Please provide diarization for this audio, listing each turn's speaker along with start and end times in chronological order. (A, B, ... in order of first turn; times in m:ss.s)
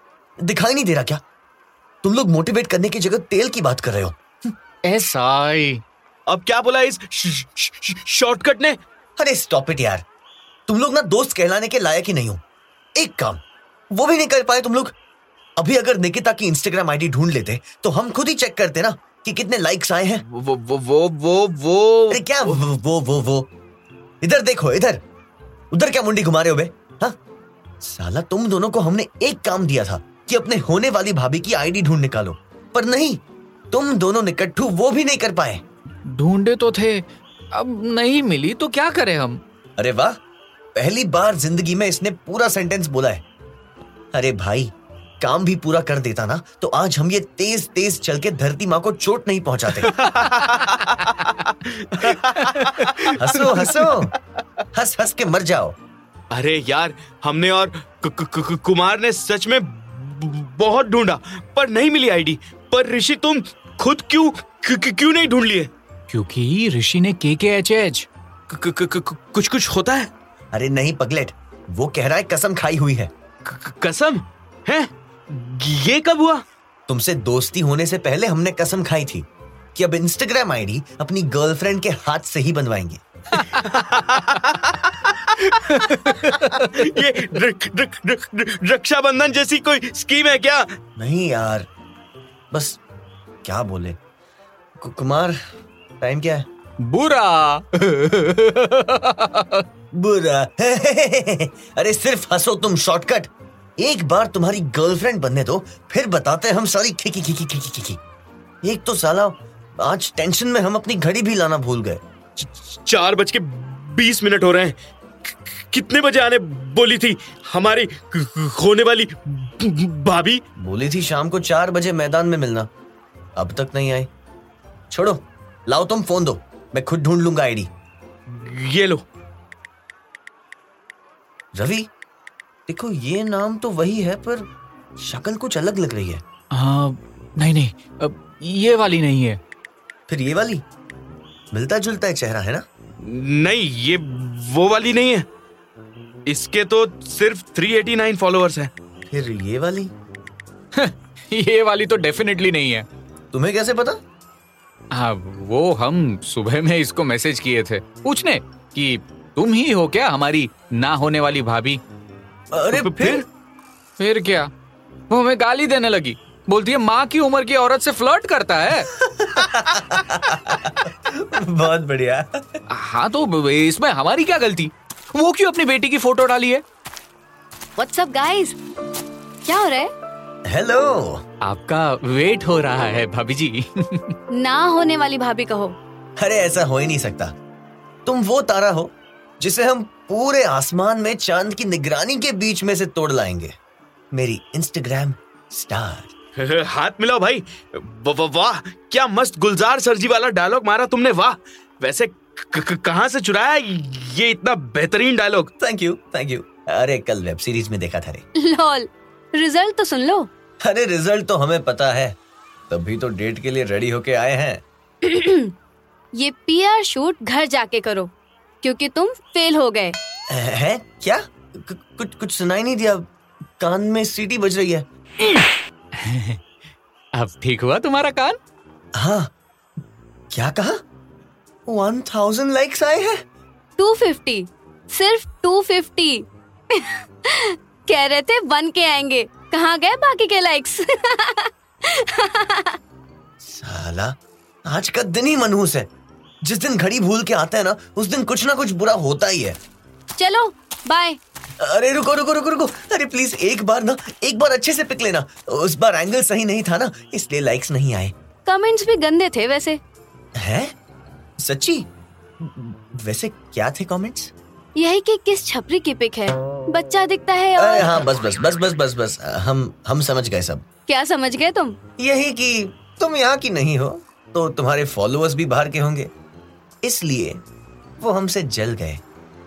0:00.4-0:01.2 A
0:02.0-0:04.5 A
0:04.8-0:05.8 B
0:06.3-0:08.8 C
0:09.2-0:10.0 A
0:10.7-0:12.4 A
0:13.0-0:14.9 A
0:15.6-0:20.2 A
0:20.3-0:22.6 C
0:22.1-0:23.5 A
0:24.2-0:25.0 A
0:25.7-0:27.2 A
0:27.8-0:35.6 A
0:36.0-0:39.4 B
0:39.8-0:40.2 A
0:40.7-0:43.2 A
0:44.1-0:49.9 A
0:49.9-0:53.8 C
0:52.4-0:53.7 B
0:53.2-0:54.1 A
0:54.7-0:55.8 A
0:56.3-1:05.7 C
1:06.1-1:08.1 B
1:08.5-1:10.1 C
1:10.5-1:13.1 A
1:13.4-1:16.4 C
1:16.9-1:23.0 A
1:23.6-1:30.8 C
1:25.7-1:26.8 B
1:31.0-1:31.7 A
1:32.5-1:32.8 A
1:33.4-1:34.0 A
1:34.8-1:35.4 A
1:36.0-1:36.5 A
1:36.8-1:39.6 B
1:39.9-1:48.0 A
1:48.6-1:52.0 A
1:52.4-2:00.4 C
2:00.6-2:02.7 A
2:03.4-2:04.1 A
2:04.9-2:07.7 A
2:08.3-2:09.0 C
2:11.5-2:11.9 A
2:12.7-2:14.5 A
2:15.0-2:16.2 A
2:16.5-2:19.4 B
2:20.1-2:20.6 A
2:21.5-2:22.6 A
2:23.0-2:25.3 C
2:26.2-2:28.7 C
2:29.1-2:29.9 A
2:30.7-2:32.8 B
2:33.3-2:34.0 A
2:34.9-2:41.8 B
2:42.5-2:43.2 A
2:42.7-2:43.2 C
2:44.0-2:44.5 B
2:45.1-2:48.9 B
2:48.9-2:52.6 A
2:52.7-2:56.6 B
2:57.8-2:58.6 D
2:59.4-2:59.9 D
3:00.5-3:01.2 A
3:01.4-3:04.1 B
3:04.3-3:05.8 D
3:06.2-3:07.3 A
3:08.0-3:13.6 A
3:14.1-3:16.1 A
3:16.4-3:25.5 C
3:25.6-3:28.2 A
3:28.4-3:30.3 D
3:30.6-3:32.2 A
3:32.7-3:34.6 A
3:35.0-3:35.5 D
3:36.1-3:40.0 D
3:40.3-3:44.8 A
3:45.9-3:46.4 B
3:47.1-3:48.4 B
3:48.9-3:49.3 A
3:50.3-3:50.8 A
3:51.7-3:53.2 A
3:53.8-4:02.8 D
4:03.4-4:05.9 A
4:06.4-4:09.6 A
4:10.2-4:11.2 D
4:11.6-4:18.1 A
4:18.4-4:19.8 D
4:20.4-4:20.7 A
4:21.4-4:21.9 A
4:22.4-4:24.3 A
4:24.7-4:28.0 D
4:27.6-4:30.6 A
4:30.9-4:31.8 D
4:32.0-4:36.1 A
4:36.8-4:37.4 A
4:38.0-4:39.0 A